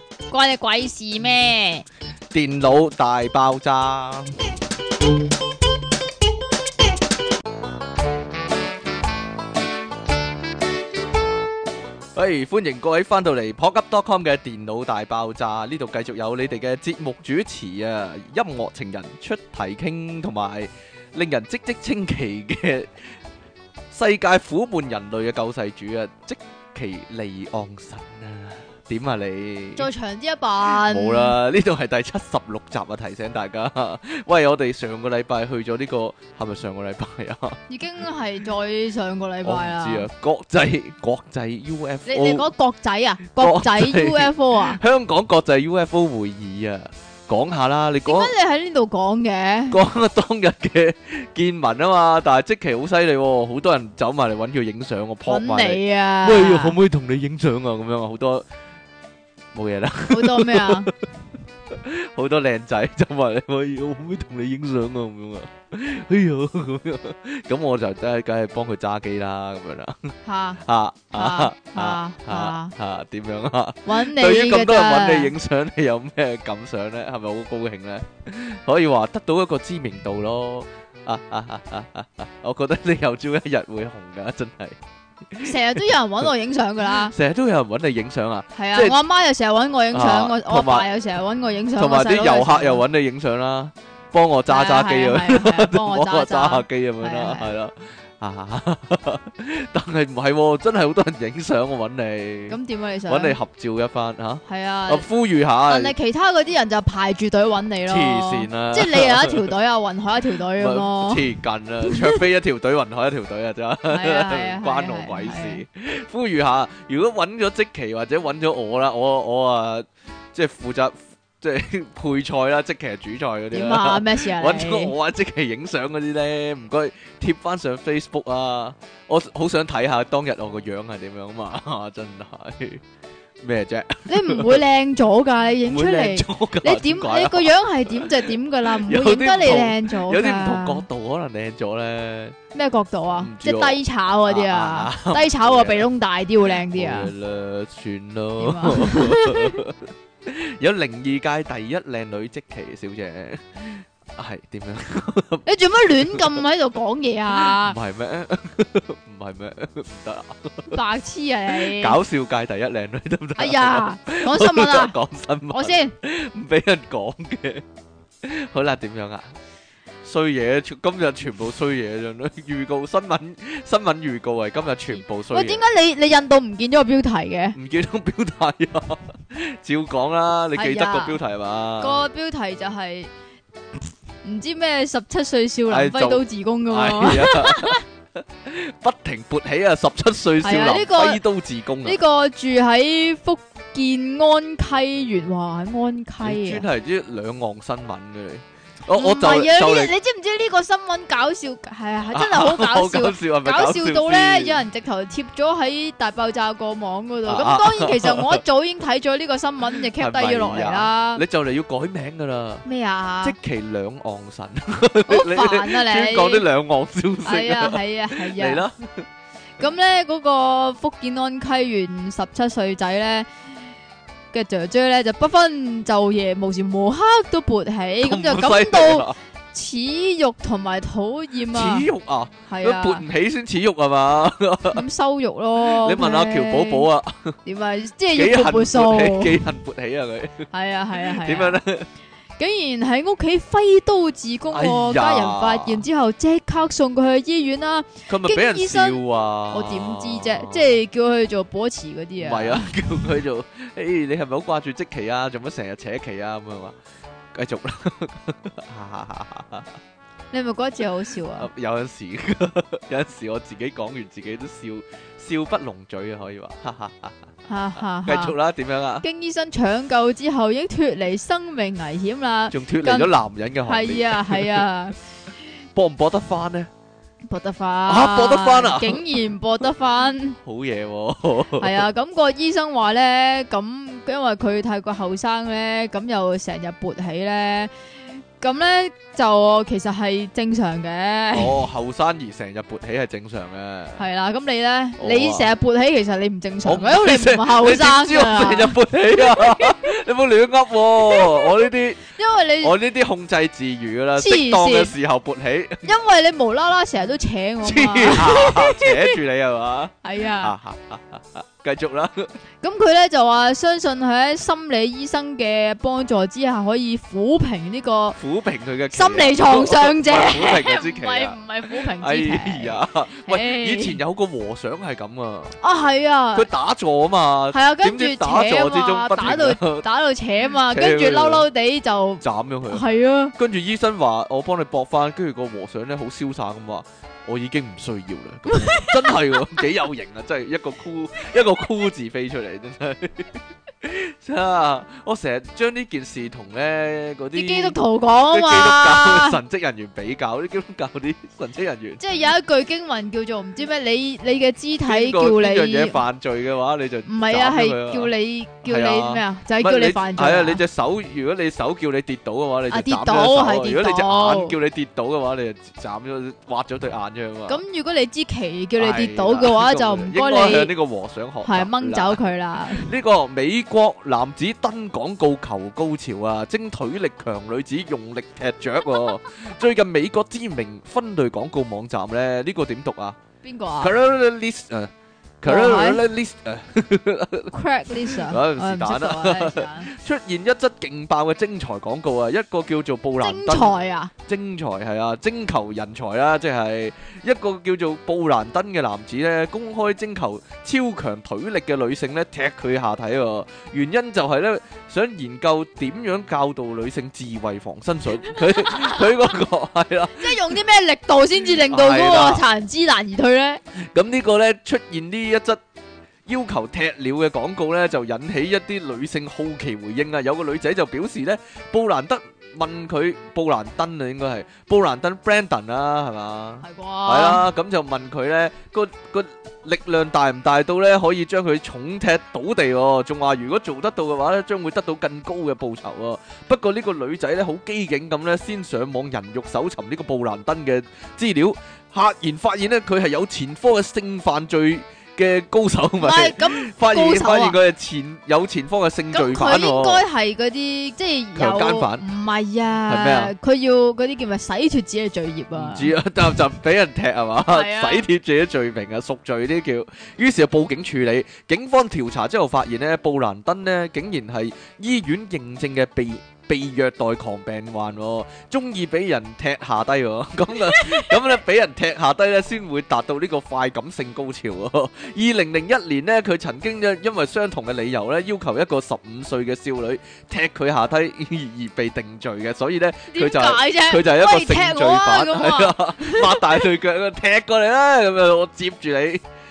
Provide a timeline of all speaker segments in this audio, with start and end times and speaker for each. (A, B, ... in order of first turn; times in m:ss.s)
0:00.3-0:01.8 A
0:02.3-0:04.5 B
0:12.2-0:23.2 B
0:23.9-0:29.9 B
0:29.8-0:31.4 A
0:30.6-0:37.6 B
0:37.7-0:40.1 A
0:39.4-0:42.5 B
0:42.1-0:44.8 A
0:43.3-0:48.3 B
0:48.0-0:49.8 A
0:49.7-0:58.5 B
0:55.3-0:56.8 A
0:59.5-1:00.9 B
1:00.1-1:00.9 A
1:01.7-1:24.8 B
1:10.2-1:10.6 A
1:11.1-1:12.7 A
1:13.9-1:15.3 A
1:25.3-1:25.8 B
1:25.4-1:27.2 A
1:26.9-1:29.0 B
1:28.5-1:32.8 A
1:29.9-1:30.9 B
1:31.8-1:42.6 B
1:34.5-1:37.5 A
1:42.5-1:43.4 A
1:43.1-1:45.9 B
1:44.5-1:45.1 A
1:45.7-1:51.3 A
1:47.9-1:49.5 B
1:50.6-2:12.8 B
1:51.8-1:52.2 A
1:53.9-1:55.6 A
2:03.5-2:05.0 A
2:13.4-2:14.6 B
2:14.1-2:20.8 A
2:15.6-2:22.4 B
2:22.5-2:27.1 A
2:23.2-2:25.9 B
2:26.7-2:35.4 B
2:28.4-2:29.6 A
2:35.4-2:37.8 A
2:36.0-2:36.4 B
2:37.3-2:40.8 B
2:40.7-2:42.0 A
2:41.6-2:47.6 B
2:43.4-2:45.0 A
2:45.5-2:45.9 A
2:48.2-2:49.4 B
2:50.0-2:55.6 B
2:55.3-2:57.6 A
2:57.6-3:02.0 B
3:00.6-3:01.2 A
3:01.8-3:03.1 A
3:04.2-3:07.8 A
3:05.7-3:12.0 B
3:10.4-3:11.2 A
3:11.8-3:16.6 A
3:16.2-3:19.9 B
3:18.9-3:31.2 A
3:22.1-3:24.6 B
3:27.3-3:28.4 B
3:29.8-3:32.6 B
3:32.6-3:33.4 A
3:33.2-3:39.1 B
3:35.1-3:36.4 A
3:37.2-3:38.7 A
3:39.6-3:43.3 A
3:44.3-3:51.9 A
3:48.0-3:49.2 B
3:51.5-3:54.8 B
3:52.5-3:53.0 A
3:54.7-3:56.9 A
3:55.7-3:57.4 B
3:57.4-3:59.5 A
3:58.1-4:00.5 B
4:00.5-4:01.6 A
4:01.0-4:01.9 B
4:02.4-4:12.7 A
4:04.5-4:05.8 B
4:08.1-4:10.7 B
4:12.2-4:16.8 B
4:17.3-4:19.7 B
4:20.3-4:21.5 A
4:21.4-4:27.2 B
4:27.5-4:28.4 A
4:28.0-4:29.0 B
4:29.0-4:33.1 A
4:32.5-4:34.6 B
4:33.6-4:35.0 A
4:35.8-4:36.7 B
4:37.3-4:40.4 A
4:37.9-4:39.1 B
4:40.4-4:41.9 B
4:41.6-4:47.7 A
4:48.4-4:51.6 A
4:51.3-4:54.0 B
4:54.0-4:59.9 A
4:55.0-4:55.5 B
4:56.6-5:02.0 B
5:01.1-5:01.5 A
5:02.2-5:02.8 A
5:02.6-5:05.9 B
5:04.2-5:04.9 A
5:05.8-5:09.2 A
5:07.6-5:12.3 B
5:10.0-5:10.6 A
5:12.6-5:18.2 A
5:18.2-5:25.5 B
5:18.9-5:24.0 A
5:25.6-5:26.5 A
5:26.4-5:29.8 B
5:27.5-5:33.4 A
5:30.7-5:31.5 B
5:32.2-5:47.8 B
5:38.5-5:38.9 A
5:47.3-5:49.4 A
5:48.3-5:52.0 B
5:52.0-5:56.0 A
5:54.9-5:58.1 B
5:57.1-6:00.6 A
5:58.6-6:07.6 B
6:02.7-6:04.6 A
6:07.5-6:10.7 A
6:08.8-6:12.2 B
6:11.4-6:12.9 A
6:12.7-6:23.2 B
6:23.4-6:24.0 A
6:23.8-6:27.5 B
6:25.4-6:26.0 A
6:27.5-6:29.9 A
6:28.1-6:33.7 B
6:33.2-6:34.1 A
6:34.3-6:50.4 B
6:48.5-6:49.0 A
6:50.2-6:53.6 A
6:51.7-6:52.4 B
6:53.8-6:55.6 B
6:56.3-7:30.0 B
7:06.6-7:07.4 A
7:26.0-7:27.6 A
7:29.1-7:36.0 A
7:31.4-7:32.0 B
7:32.9-7:33.3 B
7:35.6-8:09.2 B
7:37.5-7:38.1 A
7:50.7-7:51.0 A
8:03.1-8:06.6 A